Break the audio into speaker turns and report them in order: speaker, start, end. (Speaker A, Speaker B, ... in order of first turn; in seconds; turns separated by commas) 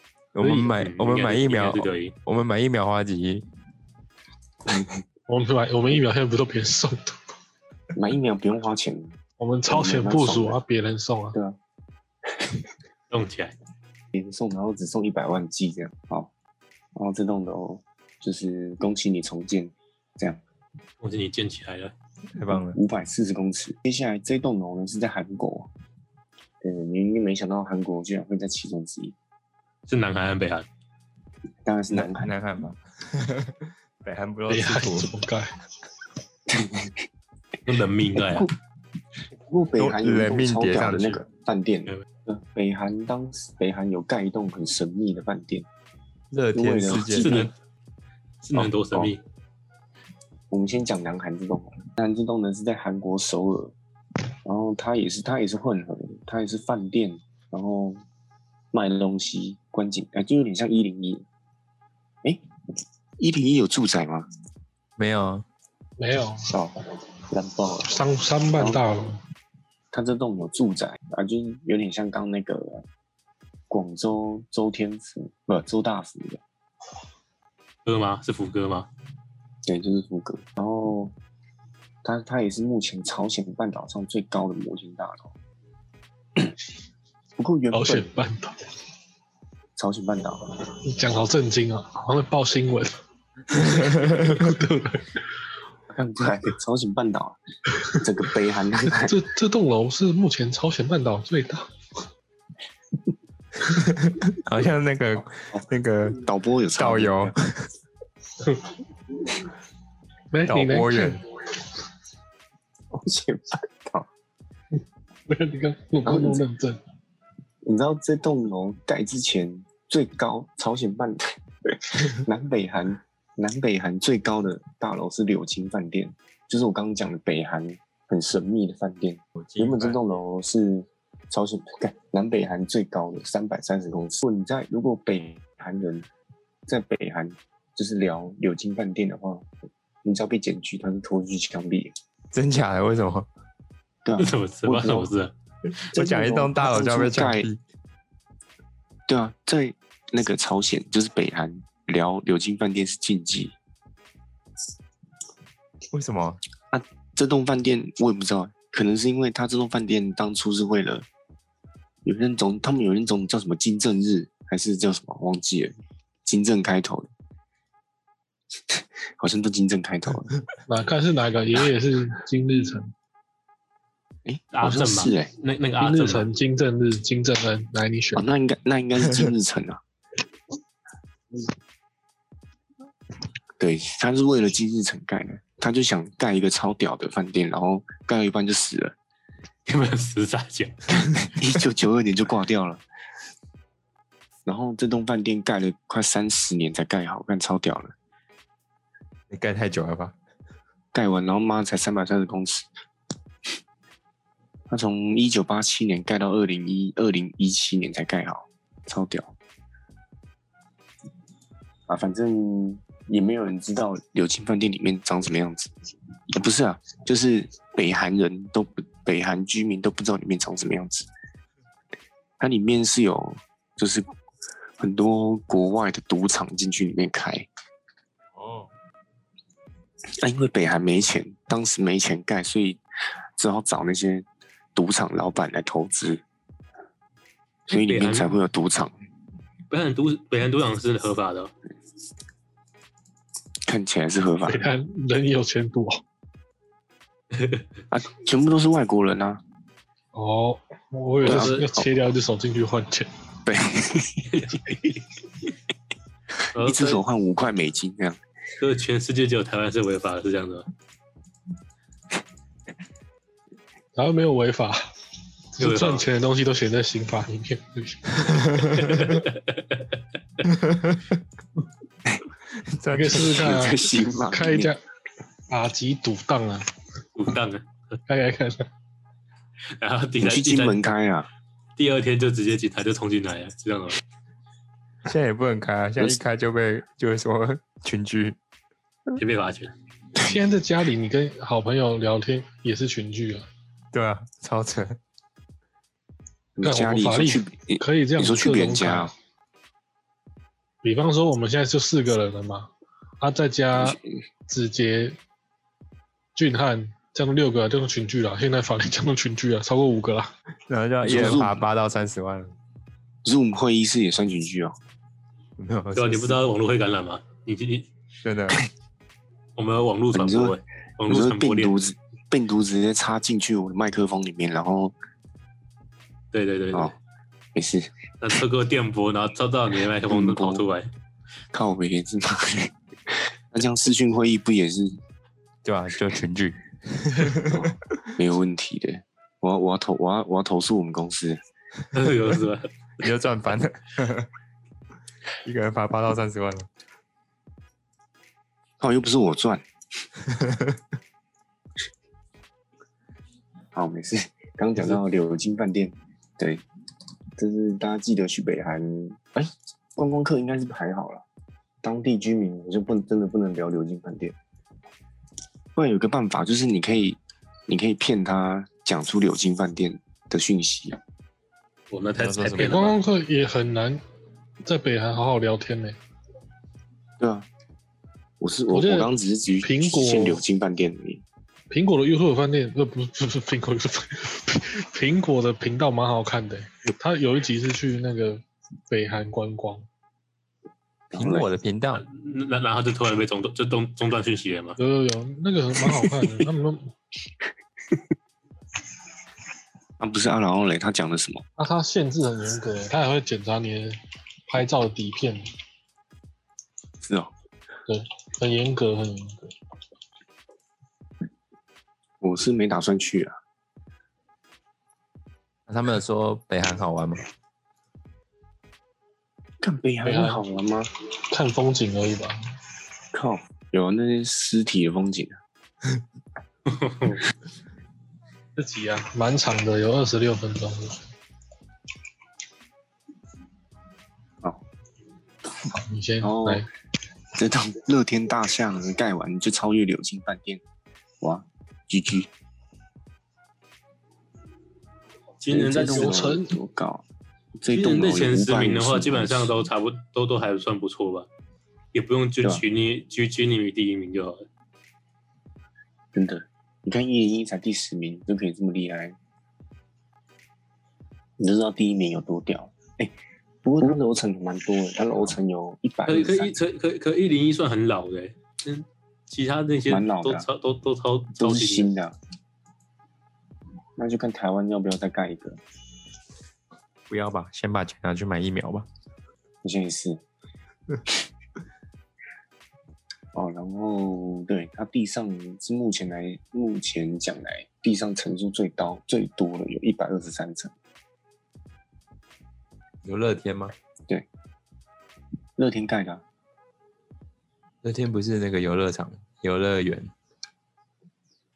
Speaker A: 0.3-3.4, Speaker B: 0.4-0.7, Speaker C: 0.8-2.1, Speaker D: 4.7-5.0, Speaker B: 5.3-7.2, Speaker D: 7.9-10.6, Speaker B: 9.4-11.4, Speaker D: 11.3-11.6, Speaker C: 13.1-13.5, Speaker D: 14.1-16.3, Speaker D: 16.9-20.4, Speaker C: 21.0-21.9, Speaker A: 22.3-22.8, Speaker D: 22.5-25.7, Speaker D: 26.6-29.1, Speaker C: 29.9-30.6, Speaker D: 31.6-32.3, Speaker A: 31.9-35.1, Speaker B: 34.5-35.5, Speaker D: 36.5-37.0, Speaker C: 37.6-38.5, Speaker D: 38.2-38.5, Speaker D: 39.4-45.6, Speaker A: 39.8-41.2, Speaker A: 46.3-47.5, Speaker D: 46.5-47.5, Speaker C: 47.0-47.5, Speaker C: 48.4-49.2, Speaker D: 48.5-49.1, Speaker D: 50.5-53.7, Speaker D: 54.4-58.0, Speaker D: 58.7-61.2, Speaker D: 63.2-64.3, Speaker A: 65.0-65.4, Speaker B: 66.0-66.5, Speaker D: 66.5-66.7, Speaker D: 67.3-68.0, Speaker B: 67.8-69.2, Speaker D: 68.5-68.8, Speaker D: 69.9-72.8, Speaker D: 73.7-76.4, Speaker C: 77.8-78.9, Speaker D: 79.7-81.1, Speaker D: 82.0-85.3, Speaker D: 87.4-88.1, Speaker B: 87.7-88.6, Speaker D: 89.8-90.5, Speaker B: 90.8-93.0, Speaker B: 93.5-95.2, Speaker D: 95.9-99.2, Speaker B: 98.8-101.7, Speaker A: 103.7-106.2, Speaker D: 106.2-107.3, Speaker A: 106.8-107.7, Speaker B: 108.4-108.7, Speaker B: 110.3-111.2, Speaker A: 110.5-111.2, Speaker D: 112.9-114.1, Speaker B: 115.3-116.8, Speaker D: 116.0-116.4, Speaker D: 117.6-136.1, Speaker A: 129.4-130.0, Speaker D: 136.7-139.5, Speaker D: 140.0-141.9, Speaker A: 142.3-143.3, Speaker D: 144.0-145.1, Speaker C: 144.2-145.3, Speaker D: 145.9-147.5, Speaker A: 145.9-147.6, Speaker D: 149.1-153.5, Speaker A: 155.9-156.4, Speaker D: 156.7-161.1, Speaker D: 162.0-165.7, Speaker D: 166.2-167.1, Speaker D: 168.7-170.3, Speaker B: 170.7-172.9, Speaker D: 174.2-175.3, Speaker C: 174.5-176.3, Speaker B: 175.8-178.2, Speaker D: 178.1-179.8, Speaker D: 183.6-188.9, Speaker C: 189.7-191.0, Speaker D: 191.2-192.8, Speaker D: 194.4-197.9, Speaker A: 199.3-200.1, Speaker D: 200.9-202.7, Speaker D: 204.7-209.3, Speaker D: 211.9-215.7, Speaker D: 216.3-221.1, Speaker D: 222.4-224.1, Speaker D: 224.8-227.5, Speaker A: 228.3-228.7, Speaker D: 230.2-232.8, Speaker D: 233.4-236.2, Speaker D: 237.7-238.9, Speaker C: 237.7-238.3, Speaker C: 239.7-241.5, Speaker D: 243.7-244.6, Speaker B: 244.5-246.0, Speaker C: 247.3-247.6, Speaker D: 247.9-249.4, Speaker B: 250.1-253.1, Speaker C: 251.2-251.6, Speaker D: 251.2-251.9, Speaker D: 253.4-254.4, Speaker C: 254.3-254.6, Speaker D: 256.4-258.2, Speaker C: 256.5-257.0, Speaker C: 258.6-260.7, Speaker B: 263.9-264.9, Speaker B: 265.5-268.6, Speaker C: 265.6-266.0, Speaker A: 268.2-269.0, Speaker C: 268.8-269.8, Speaker A: 270.4-271.2, Speaker A: 272.6-273.6, Speaker B: 272.9-274.8, Speaker D: 273.1-274.7, Speaker B: 275.5-276.7, Speaker C: 277.1-277.9, Speaker B: 278.1-278.7, Speaker C: 279.8-280.8, Speaker D: 280.2-281.3, Speaker C: 281.8-284.0, Speaker A: 285.0-288.4, Speaker C: 289.2-289.7, Speaker B: 290.2-293.4, Speaker A: 293.9-295.0, Speaker D: 296.6-299.1, Speaker B: 296.6-299.1, Speaker B: 300.8-305.2, Speaker D: 303.8-304.0, Speaker B: 306.3-310.3, Speaker A: 310.7-312.5, Speaker D: 311.0-311.6, Speaker D: 313.2-314.8, Speaker A: 315.6-316.4, Speaker C: 315.9-317.9, Speaker A: 318.2-318.6, Speaker C: 319.6-321.7, Speaker D: 320.1-324.9, Speaker C: 326.3-326.9, Speaker D: 327.5-327.9, Speaker C: 328.2-330.9, Speaker D: 330.1-330.7, Speaker D: 331.5-335.0, Speaker A: 335.6-337.7, Speaker D: 337.5-341.4, Speaker C: 341.9-342.7, Speaker A: 343.0-344.3, Speaker A: 345.4-346.7, Speaker D: 348.8-349.6, Speaker A: 350.2-350.8, Speaker D: 353.7-356.6, Speaker D: 357.4-361.2, Speaker D: 361.8-364.4, Speaker D: 365.7-371.0, Speaker C: 371.9-372.9, Speaker A: 372.1-372.9, Speaker B: 372.6-374.0, Speaker B: 374.6-376.0, Speaker D: 377.2-377.5, Speaker D: 378.4-381.2, Speaker B: 378.7-379.1, Speaker B: 379.6-380.4, Speaker B: 381.7-389.9, Speaker D: 391.1-391.5, Speaker A: 391.1-392.0, Speaker C: 391.9-394.8, Speaker B: 394.8-396.9, Speaker D: 400.0-401.4, Speaker B: 401.6-405.4, Speaker D: 407.0-407.3, Speaker B: 407.9-409.5, Speaker D: 412.2-413.3, Speaker A: 415.7-417.2, Speaker D: 419.6-420.9, Speaker B: 420.0-420.4, Speaker B: 421.3-422.3, Speaker D: 423.1-425.4, Speaker C: 426.7-427.2, Speaker B: 428.6-431.0, Speaker B: 435.7-436.7, Speaker D: 436.2-436.6, Speaker D: 437.4-440.6, Speaker D: 441.2-442.3, Speaker C: 445.4-446.2, Speaker D: 445.5-447.0, Speaker B: 445.6-446.5, Speaker D: 447.6-449.5, Speaker C: 447.7-451.3, Speaker C: 451.9-454.4, Speaker D: 456.1-459.1, Speaker D: 461.4-466.5, Speaker C: 466.1-471.9, Speaker D: 469.9-470.5, Speaker D: 471.4-472.1, Speaker D: 474.0-475.6, Speaker A: 477.1-478.9, Speaker D: 479.6-480.2, Speaker D: 483.3-490.7, Speaker A: 493.0-493.7, Speaker D: 495.6-496.2, Speaker A: 497.8-500.1